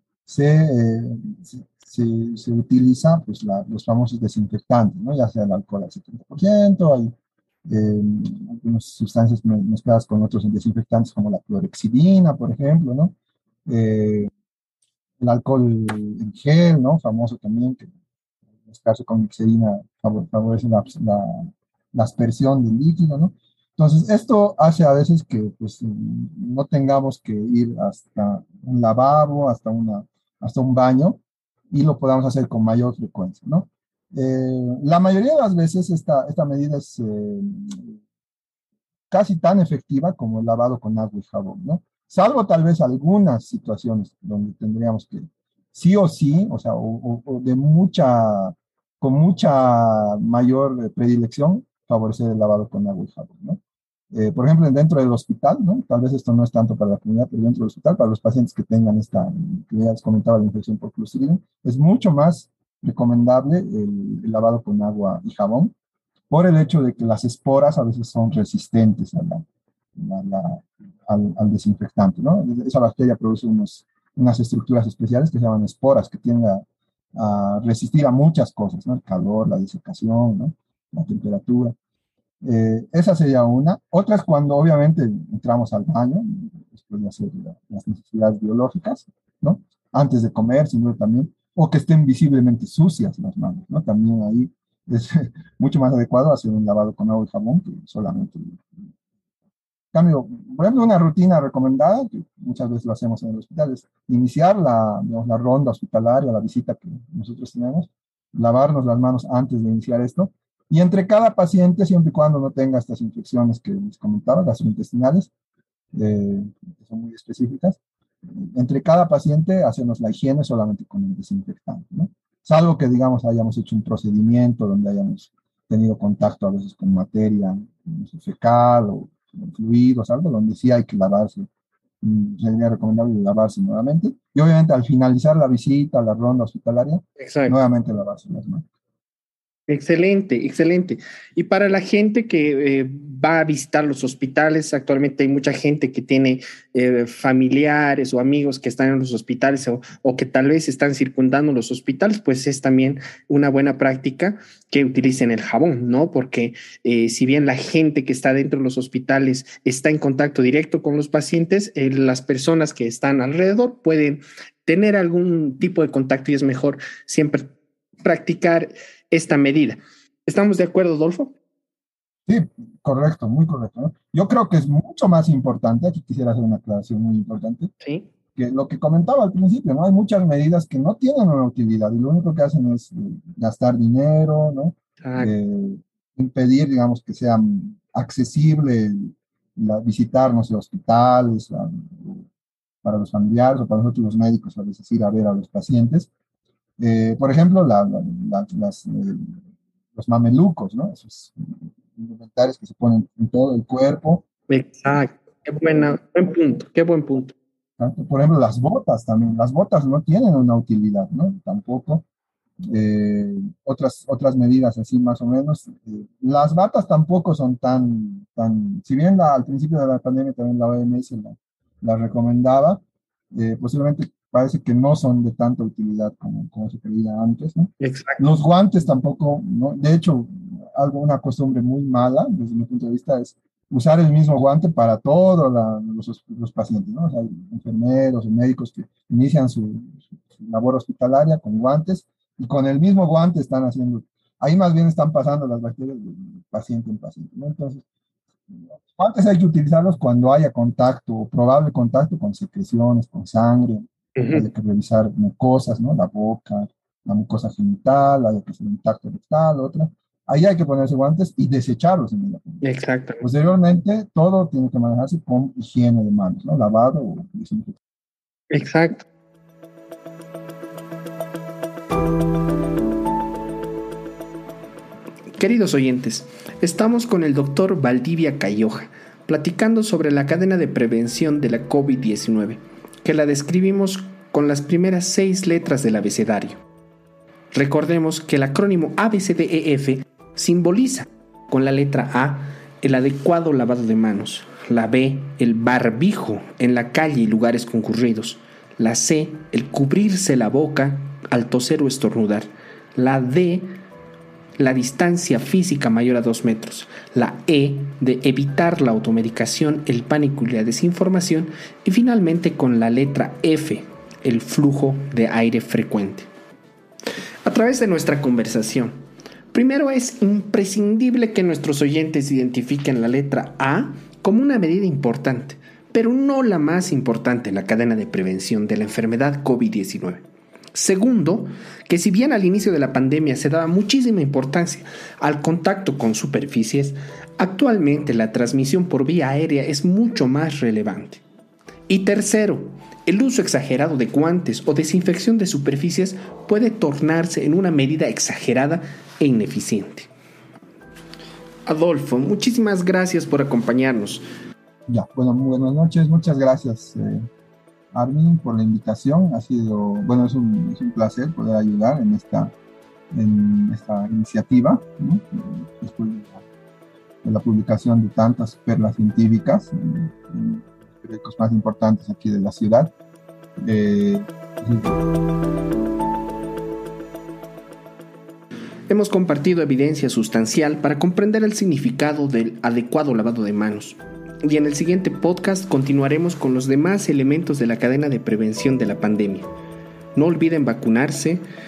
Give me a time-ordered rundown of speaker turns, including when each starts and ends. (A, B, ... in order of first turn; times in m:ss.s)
0:00.3-0:07.1 A
0:07.7-0:13.2 A
0:13.7-0:14.3 A
0:15.2-0:17.9 A
0:18.6-0:38.0 A
0:39.1-0:53.6 A
0:54.1-1:05.7 A
1:06.3-1:09.4 A
1:10.0-1:21.8 A
1:22.4-1:38.7 A
1:39.9-1:55.3 A
1:55.9-1:57.8 A
1:58.4-2:11.5 A
2:12.0-2:18.6 A
2:17.2-2:17.6 B
2:19.7-2:47.5 B
2:48.0-2:51.3 B
2:52.3-2:57.7 A
2:57.8-2:58.1 B
2:58.4-3:12.3 A
3:05.0-3:05.4 B
3:12.8-3:16.1 A
3:16.8-3:19.4 A
3:20.0-3:24.2 A
3:24.5-3:27.3 B
3:27.8-3:32.0 A
3:32.7-3:42.8 A
3:43.3-4:07.8 A
3:47.8-3:48.2 B
4:08.5-4:22.6 A
4:14.2-4:14.5 B
4:22.6-4:23.2 B
4:23.2-4:27.8 A
4:28.5-4:29.0 B
4:35.4-4:46.6 B
4:47.5-5:03.7 B
5:04.6-5:16.3 B
5:17.4-5:19.0 B
5:19.5-5:41.2 B
5:41.9-5:50.1 B
5:51.7-5:54.3 B
5:54.9-5:57.3 A
5:57.9-6:02.5 A
6:03.1-6:06.4 A
6:07.2-6:12.9 A
6:13.6-6:15.0 A
6:18.9-6:29.5 B
6:30.2-6:31.4 B